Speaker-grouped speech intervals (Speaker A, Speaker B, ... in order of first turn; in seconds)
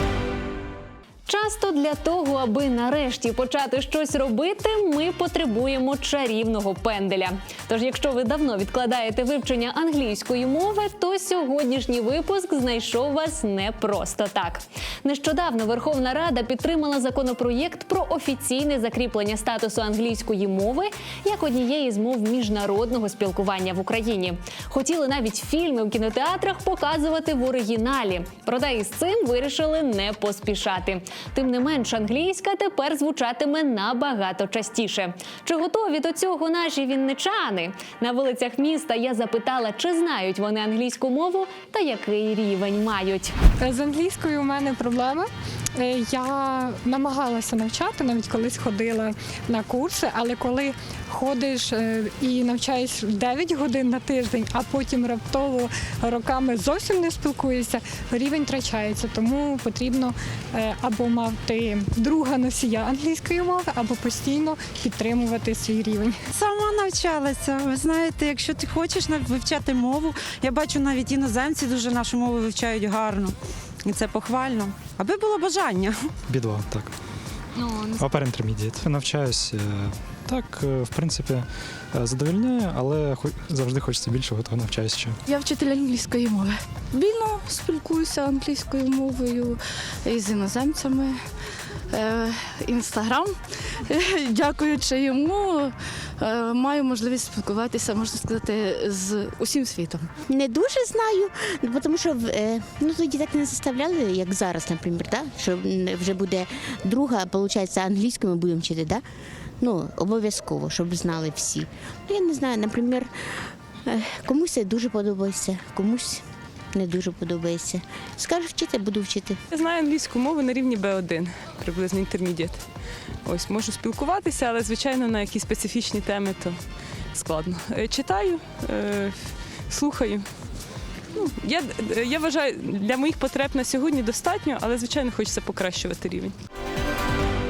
Speaker A: 1.3-43.3
Speaker B: 43.6-66.2
Speaker C: 66.3-76.1, 87.7-87.9
Speaker D: 76.3-77.0, 78.0-85.2
Speaker E: 85.3-91.2, 91.9-93.4, 93.9-100.1
Speaker F: 100.3-109.0, 109.6-113.1, 113.9-119.4
Speaker G: 119.5-122.7, 123.2-130.3, 131.2-136.3